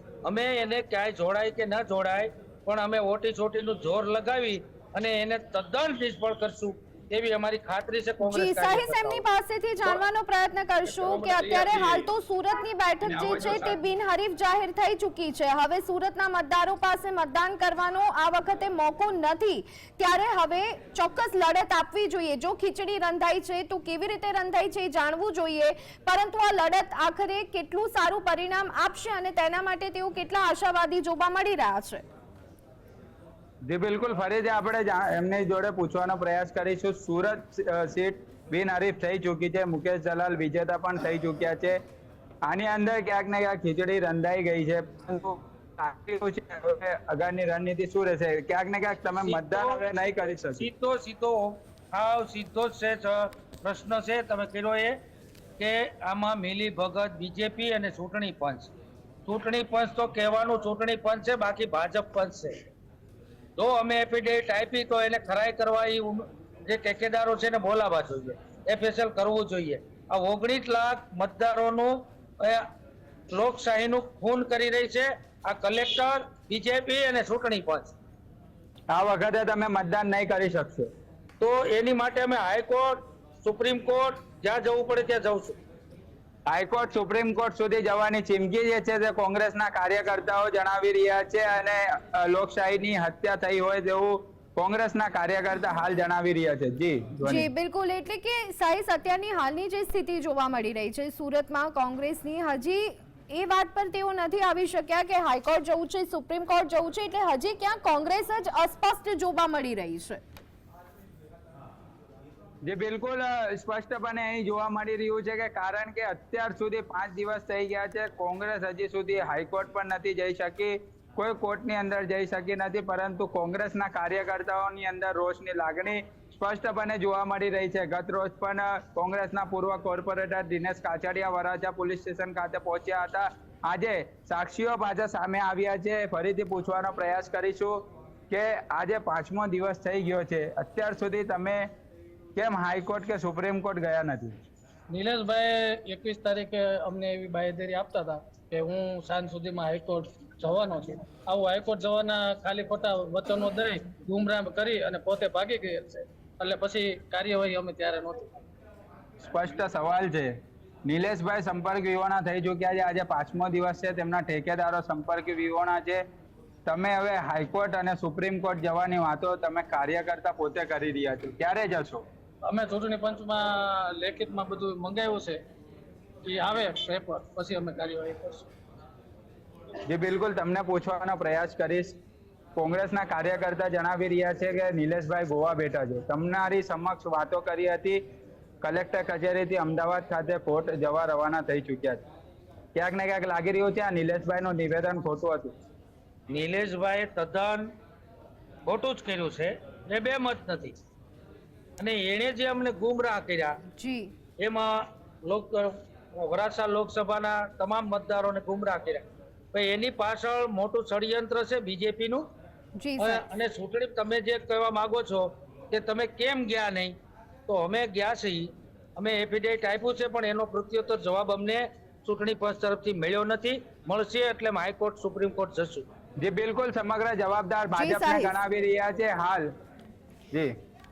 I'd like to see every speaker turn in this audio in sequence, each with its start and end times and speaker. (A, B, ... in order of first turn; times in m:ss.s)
0:00.2-0:09.3 A
0:08.3-0:32.0 B
0:33.7-0:41.8 C
0:42.4-0:50.7 C
0:49.2-0:55.0 A
0:55.6-0:58.7 A
0:59.3-1:02.6 A
1:03.6-1:12.6 A
1:13.3-1:17.9 A
1:18.9-1:20.9 C
1:21.4-1:25.6 A
1:26.5-1:37.5 C
1:37.2-1:50.2 B
1:52.6-2:21.7 C
2:22.4-2:24.4 C
2:24.9-2:38.3 D
2:39.2-2:40.3 C
2:40.9-2:46.0 C
2:46.7-2:52.1 C
2:52.5-2:55.4 D
2:56.3-2:58.5 D
2:59.9-3:02.0 C
3:02.6-3:08.0 C
3:08.6-3:12.0 C
3:12.8-3:15.5 C
3:16.3-3:17.7 A
3:18.7-3:20.7 A
3:21.8-3:23.6 A
3:23.8-3:24.1 B
3:24.4-3:32.3 A
3:32.8-3:33.3 B
3:33.0-3:37.0 A
3:37.5-3:45.9 A
3:46.2-3:49.5 C
3:47.8-3:48.4 B